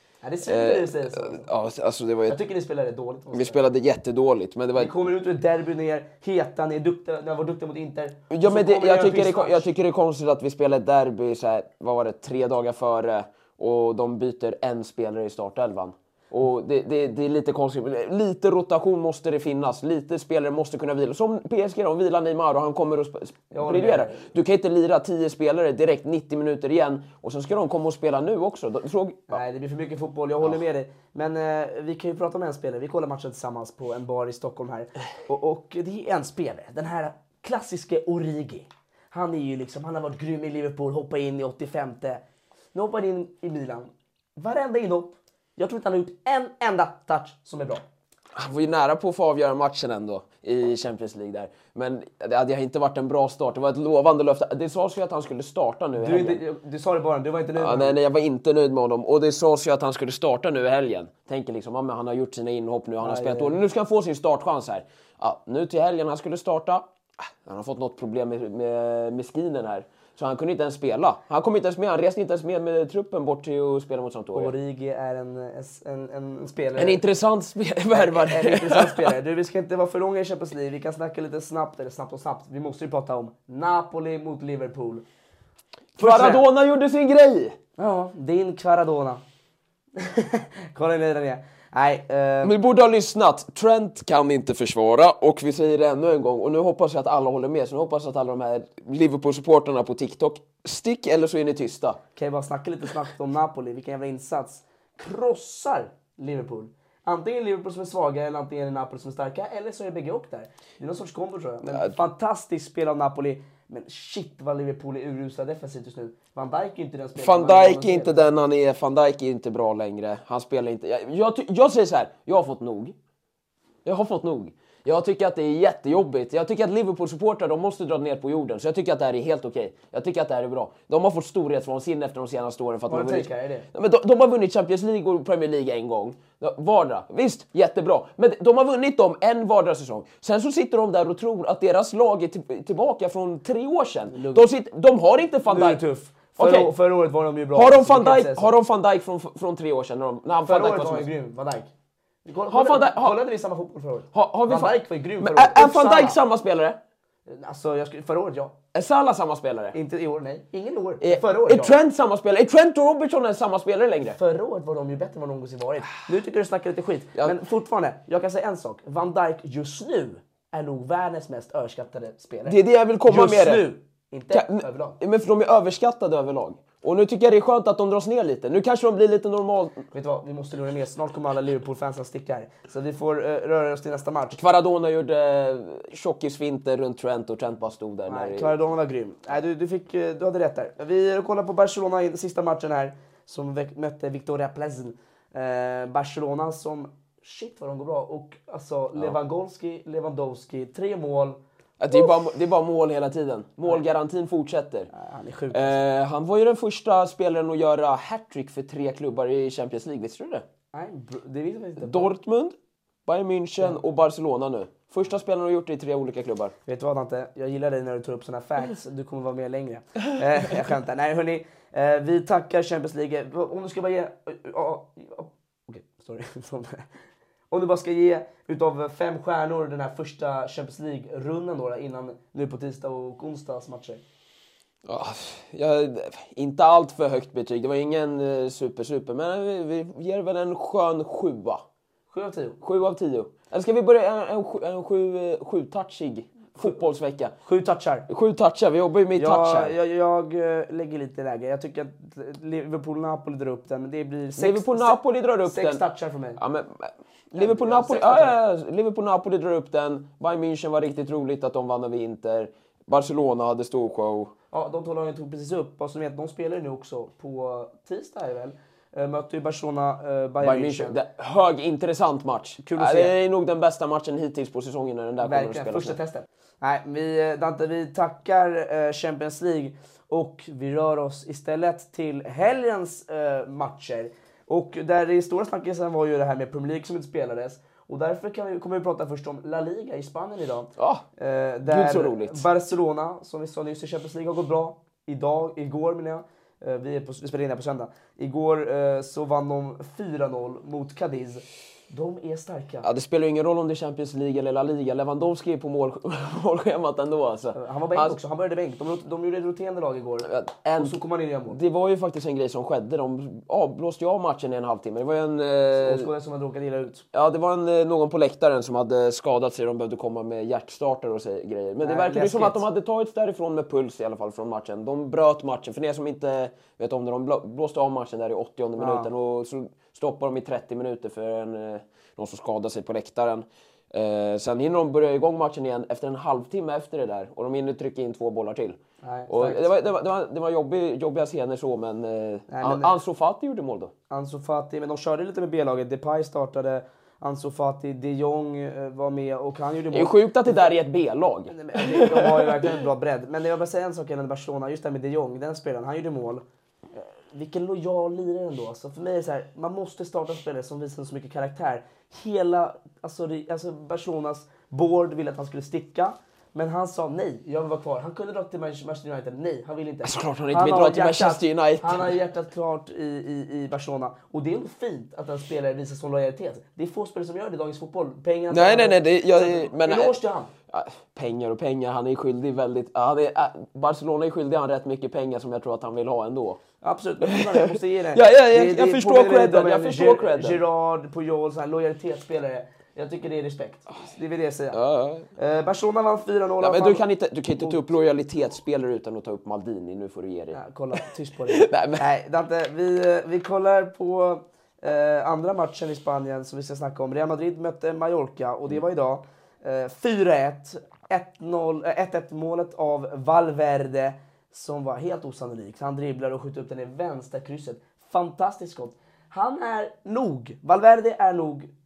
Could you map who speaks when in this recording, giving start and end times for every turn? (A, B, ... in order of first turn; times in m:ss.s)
0:00.2-0:01.5 A
0:00.4-0:02.4 B
0:02.3-0:03.6 A
0:03.3-0:05.0 B
0:04.8-0:09.7 A
0:08.3-0:29.4 B
0:23.5-0:24.2 A
0:29.3-0:42.2 A
0:42.7-0:47.8 A
0:48.4-0:56.4 B
0:56.0-0:58.0 A
0:57.6-1:14.5 B
1:03.0-1:03.6 A
1:14.3-1:17.0 A
1:16.8-1:19.1 B
1:17.9-1:25.0 A
1:26.0-1:27.6 B
1:26.0-1:26.4 A
1:27.8-1:29.2 A
1:30.0-1:32.5 A
1:32.4-1:42.0 B
1:42.2-1:58.2 A
1:51.7-1:52.0 B
1:57.2-2:03.0 B
2:03.8-2:25.8 B
2:12.9-2:13.7 A
2:24.1-2:24.5 A
2:25.5-2:28.5 A
2:26.4-2:26.7 B
2:27.5-2:31.1 B
2:30.4-2:31.7 A
2:32.3-2:36.2 A
2:32.5-2:33.2 B
2:34.1-2:36.8 B
2:37.3-2:38.5 A
2:38.7-2:39.8 B
2:39.7-2:41.7 A
2:41.0-2:44.2 B
2:44.2-2:55.0 A
2:52.5-2:53.7 B
2:54.3-2:59.8 B
2:59.9-3:04.4 A
3:04.3-3:08.5 B
3:08.1-3:21.4 A
3:21.8-3:24.9 B
3:24.9-3:25.8 A
3:25.5-3:30.4 B
3:30.7-3:32.2 A
3:31.8-3:32.6 B
3:33.1-3:36.5 B
3:36.7-3:46.9 A
3:47.5-3:54.0 A
3:54.9-4:01.6 B
4:02.1-4:02.6 A
4:02.6-4:07.4 B
4:07.4-4:08.1 A
4:08.1-4:09.7 B
4:09.2-4:16.4 A
4:14.4-4:15.8 B
4:16.4-4:24.3 B
4:17.4-4:18.4 A
4:24.5-4:31.0 A
4:30.4-4:36.0 B
4:32.6-4:33.1 A
4:35.2-5:02.9 A
4:50.8-4:51.1 B
4:51.7-4:52.4 B
5:02.8-5:08.2 B
5:07.6-5:11.6 A
5:10.2-5:16.1 B
5:15.8-5:17.0 A
5:17.1-5:38.8 B
5:21.8-5:22.6 A
5:28.8-5:29.1 A
5:39.0-5:39.6 A
5:39.3-5:43.9 B
5:42.5-5:43.0 A
5:44.1-5:50.7 A
5:49.9-5:52.7 B
5:51.5-6:20.5 A
6:10.0-6:12.1 B
6:18.5-6:20.2 B
6:20.7-6:26.6 B
6:26.8-6:34.8 A
6:27.2-6:30.6 B
6:34.7-6:35.3 B
6:35.4-6:37.0 A
6:36.6-6:41.0 B
6:40.5-7:01.7 A
6:41.5-6:42.0 B